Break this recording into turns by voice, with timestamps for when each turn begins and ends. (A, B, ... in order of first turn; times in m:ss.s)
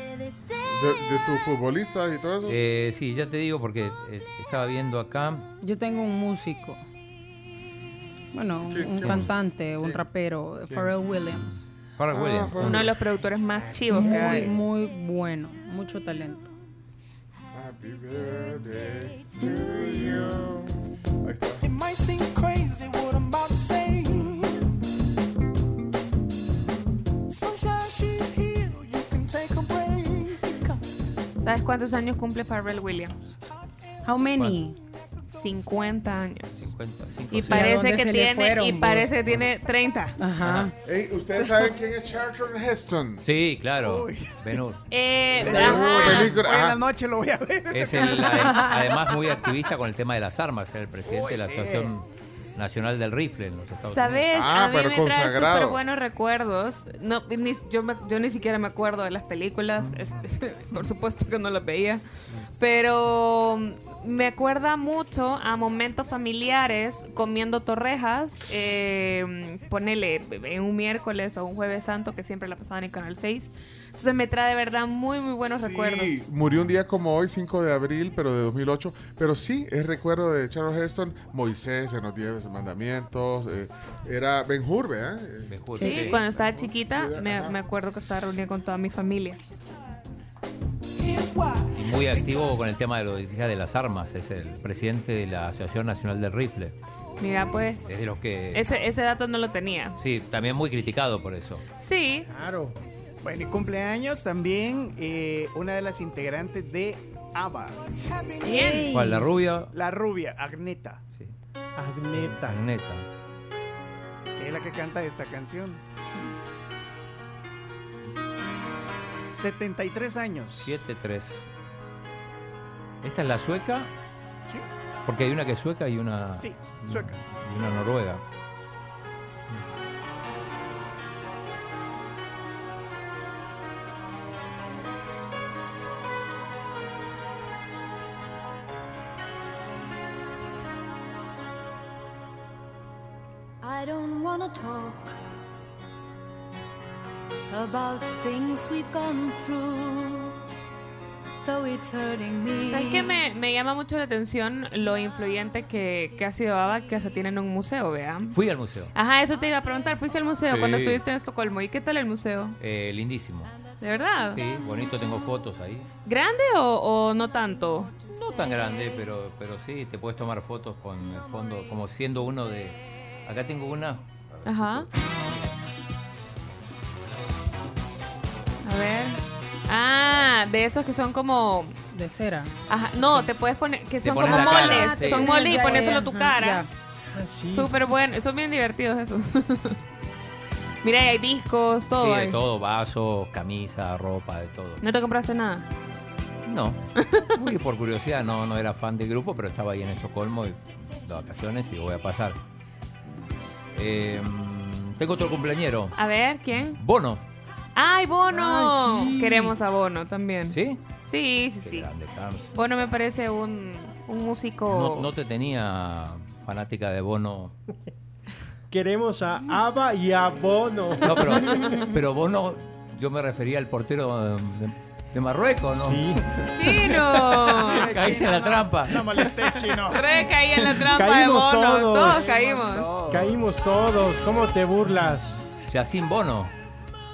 0:00.6-0:02.6 A
0:02.4-0:05.5 B
0:05.6-0:06.8 C
0:08.3-0:11.6 C
0:08.6-0:10.0 A
0:12.0-0:12.9 B
0:12.1-0:12.9 A
0:12.6-0:14.5 D
0:13.9-0:16.5 C
0:17.5-0:21.7 A
0:21.6-0:24.5 E
0:27.3-0:30.8 E
0:31.4-0:33.4 D
0:34.0-0:34.8 C
0:35.4-0:36.7 D
0:36.6-0:37.8 B
0:37.3-0:40.2 D
0:37.5-0:39.1 C
0:40.2-0:40.7 C
0:40.4-0:40.7 B
0:40.8-0:43.2 A
0:43.2-0:44.8 B
0:43.8-0:44.4 F
0:44.9-0:46.4 D
0:45.4-0:48.5 F
0:45.4-0:46.8 A
0:47.7-0:54.2 B
0:48.2-0:48.8 C
0:51.0-0:51.9 F
0:53.8-1:02.0 D
0:54.3-0:55.8 A
1:02.6-1:16.2 D
1:15.4-1:27.6 A
1:16.5-1:16.8 B
1:25.5-1:26.2 B
1:25.8-1:29.4 D
1:31.7-1:36.7 B
1:37.2-1:40.0 D
1:37.8-1:38.6 B
1:40.0-1:41.6 B
1:41.8-1:42.3 D
1:42.3-1:42.7 G
1:43.2-1:47.8 F
1:48.4-1:48.9 D
1:48.4-1:49.2 H
1:48.8-1:49.7 B
1:49.7-1:51.0 F
1:51.8-1:52.6 G
1:52.1-1:53.0 B
1:54.4-1:55.8 F
1:59.3-2:00.8 F
2:00.6-2:01.5 B
2:03.0-2:03.9 B
2:05.0-2:08.2 B
2:06.4-2:07.2 F
2:23.6-2:25.2 H
2:27.5-2:30.4 H
2:31.4-2:33.2 H
2:32.6-2:38.4 D
2:38.3-2:38.9 B
2:38.9-2:42.6 D
2:40.5-2:41.0 B
2:42.6-2:43.5 B
2:43.8-2:44.4 D
2:44.3-2:45.9 B
2:46.0-2:48.0 D
2:48.1-2:54.1 B
2:54.4-2:54.9 D
2:58.6-3:01.8 D
3:01.9-3:02.5 C
3:02.7-3:06.7 D
3:04.0-3:05.8 B
3:04.3-3:06.7 C
3:07.1-3:07.7 G
3:07.5-3:09.8 D
3:10.8-3:12.4 D
3:12.0-3:14.8 B
3:14.8-3:15.7 D
3:16.4-3:16.8 B
3:17.0-3:17.3 D
3:17.3-3:22.4 B
3:23.7-3:26.0 B
3:26.0-3:26.8 D
3:26.6-3:27.2 B
3:27.8-3:31.9 D
3:28.3-3:29.6 G
3:30.5-3:30.8 B
3:31.6-3:32.5 B
3:32.5-3:35.1 D
3:34.7-3:37.5 B
3:38.7-3:41.8 G
3:41.0-3:46.4 B
3:45.8-3:46.4 G
3:46.5-3:48.0 D
3:47.7-3:50.1 F
3:47.7-3:49.3 B
3:49.8-3:53.0 D
3:50.9-3:52.2 G
3:52.1-3:53.4 F
3:53.0-3:55.4 G
3:55.7-3:56.5 B